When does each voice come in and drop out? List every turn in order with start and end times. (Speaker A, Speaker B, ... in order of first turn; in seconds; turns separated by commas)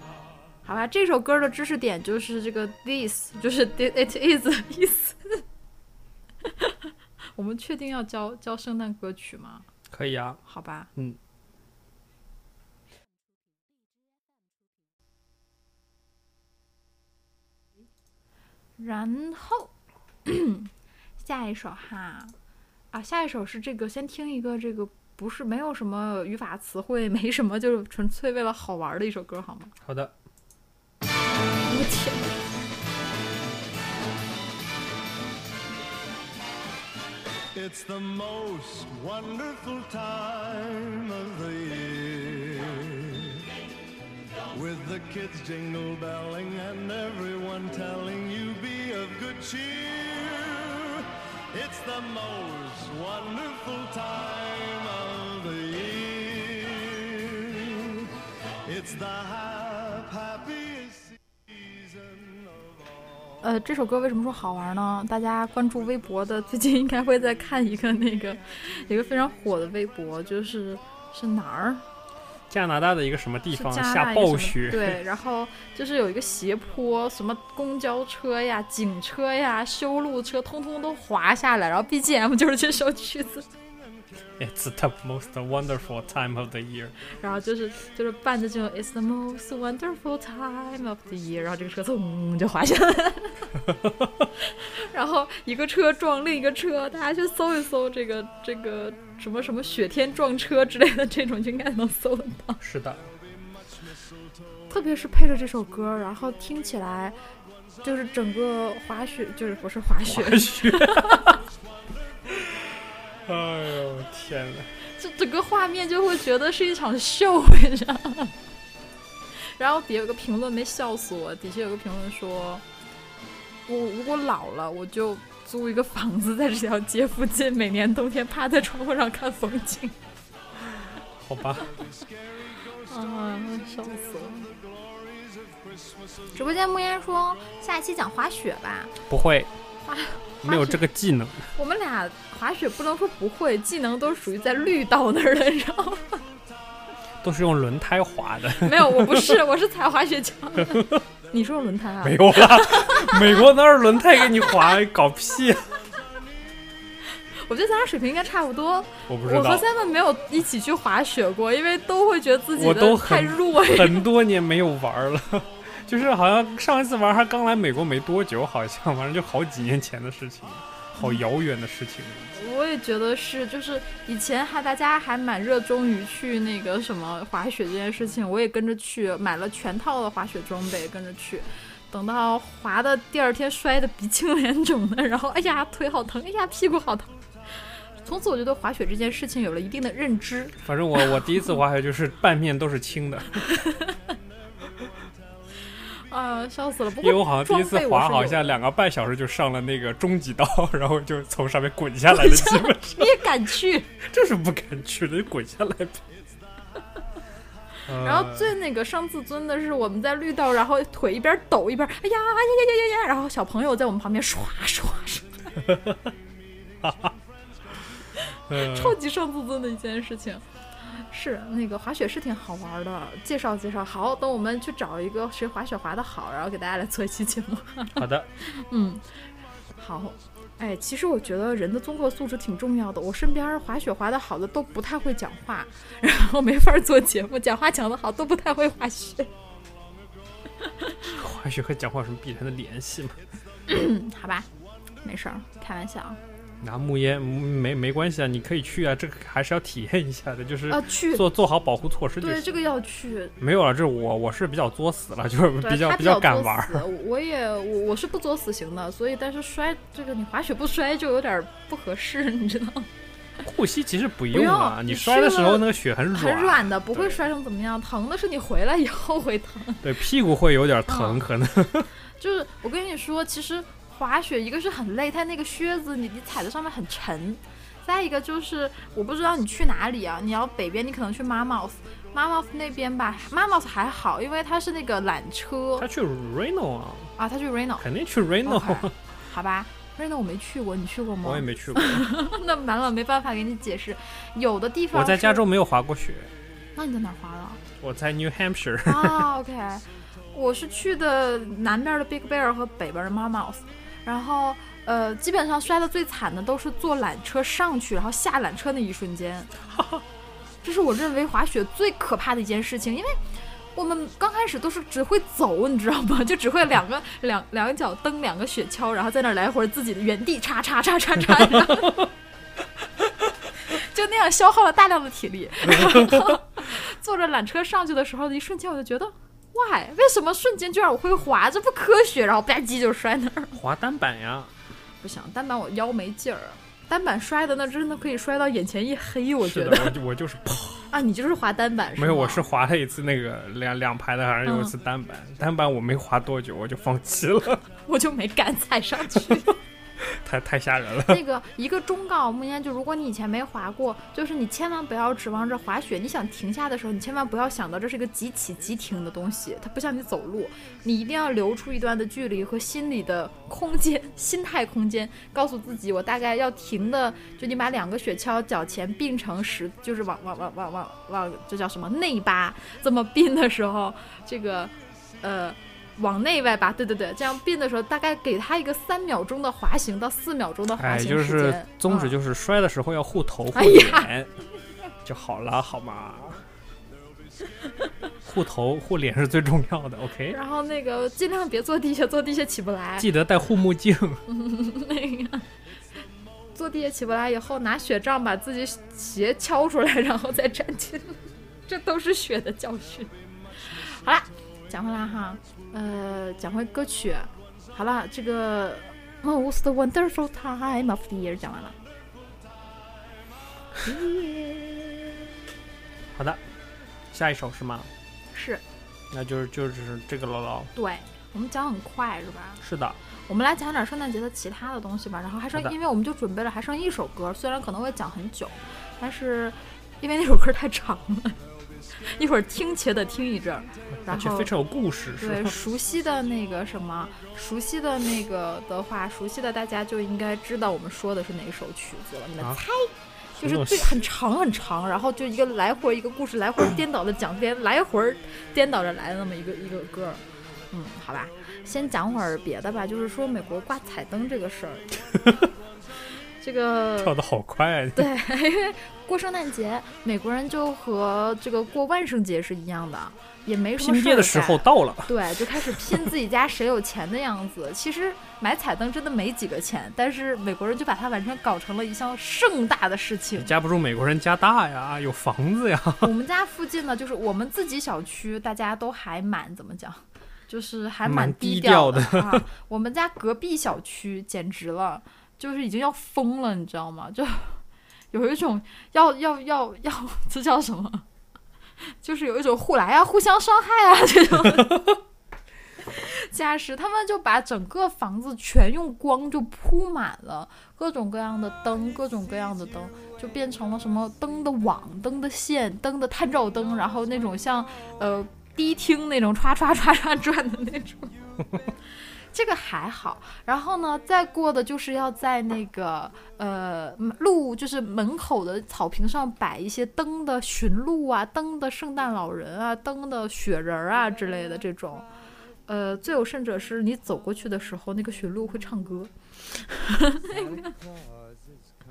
Speaker A: 0.6-5.4, Speaker A: 6.4-9.7, Speaker B: 9.9-10.4, Speaker A: 10.4-10.9, Speaker A: 18.8-19.7, Speaker A: 20.2-22.3, Speaker A: 22.9-29.7, Speaker B: 29.8-30.1, Speaker A: 31.7-32.2, Speaker C: 37.5-43.3, Speaker C: 44.5-57.8, Speaker C: 58.7-61.0, Speaker A: 63.4-71.8, Speaker B: 72.5-75.0, Speaker A: 73.5-83.5, Speaker B: 84.4-87.0, Speaker A: 87.1-93.5, Speaker B: 93.7-94.3, Speaker A: 94.5-102.6, Speaker B: 102.6-103.1, Speaker A: 104.7-107.2, Speaker A: 107.8-111.4, Speaker B: 110.0-111.4, Speaker B: 112.3-114.7, Speaker A: 115.0-118.3, Speaker A: 119.4-122.6, Speaker A: 123.7-129.9, Speaker B: 131.2-131.7, Speaker A: 132.9-134.5, Speaker A: 136.3-138.9, Speaker B: 139.1-139.5, Speaker A: 139.8-140.8, Speaker B: 140.4-141.5, Speaker A: 141.5-146.2, Speaker B: 147.2-149.4, Speaker A: 148.6-153.5, Speaker B: 150.6-151.0, Speaker B: 152.0-155.7, Speaker A: 157.3-164.1, Speaker B: 159.1-159.7, Speaker B: 162.6-172.3, Speaker A: 171.0-171.2, Speaker A: 172.3-187.1, Speaker A: 188.0-191.5, Speaker B: 190.6-193.5, Speaker A: 193.5-194.0, Speaker A: 196.1-198.4, Speaker B: 197.0-203.2, Speaker A: 202.1-203.9, Speaker B: 204.0-206.1, Speaker B: 207.8-208.5, Speaker A: 207.9-215.4, Speaker B: 215.6-216.1, Speaker B: 216.8-217.1, Speaker A: 218.2-229.0, Speaker B: 218.5-219.0, Speaker B: 228.0-228.3, Speaker A: 229.8-239.3, Speaker B: 241.1-243.2, Speaker A: 243.7-244.5, Speaker A: 245.0-246.2, Speaker B: 246.6-252.5, Speaker A: 250.7-251.3, Speaker A: 252.2-253.3, Speaker B: 253.4-256.9, Speaker A: 255.6-262.9, Speaker B: 263.4-267.2, Speaker A: 264.3-269.9, Speaker B: 269.8-271.9, Speaker A: 270.9-271.2, Speaker A: 272.2-285.9, Speaker B: 285.8-287.1, Speaker A: 287.2-287.9, Speaker B: 287.8-288.9, Speaker A: 288.4-295.4, Speaker B: 291.2-292.0, Speaker B: 294.9-296.3, Speaker A: 296.8-297.6, Speaker B: 297.8-299.3, Speaker A: 298.8-309.5, Speaker B: 309.8-310.0, Speaker A: 310.6-313.2, Speaker A: 313.7-322.1, Speaker A: 323.6-333.6, Speaker B: 325.7-326.4, Speaker B: 333.5-334.5, Speaker A: 335.0-340.0, Speaker B: 339.4-340.9, Speaker A: 340.9-342.4, Speaker B: 341.9-347.6, Speaker A: 344.4-344.7, Speaker A: 347.9-349.6, Speaker B: 350.0-351.2, Speaker A: 351.1-382.2, Speaker B: 380.8-384.3, Speaker A: 383.5-384.1, Speaker B: 385.0-386.4, Speaker B: 388.2-390.4, Speaker A: 390.3-393.1, Speaker B: 393.0-394.2, Speaker A: 394.3-395.4, Speaker A: 396.5-403.1, Speaker A: 403.6-411.7, Speaker B: 413.8-414.2, Speaker B: 416.1-416.4, Speaker B: 417.1-417.9, Speaker A: 418.3-418.6, Speaker B: 419.1-420.7, Speaker A: 420.7-422.6, Speaker B: 422.6-423.0, Speaker A: 423.2-431.4, Speaker A: 432.0-434.5, Speaker B: 434.1-435.5, Speaker A: 435.1-454.9, Speaker B: 443.4-444.1, Speaker A: 456.4-457.1, Speaker B: 457.0-458.1, Speaker A: 457.9-473.5, Speaker B: 463.8-466.1, Speaker B: 473.4-476.1, Speaker A: 476.0-491.0, Speaker B: 481.0-482.5, Speaker A: 492.0-494.9, Speaker A: 495.8-511.1, Speaker A: 512.3-525.1, Speaker A: 525.7-530.7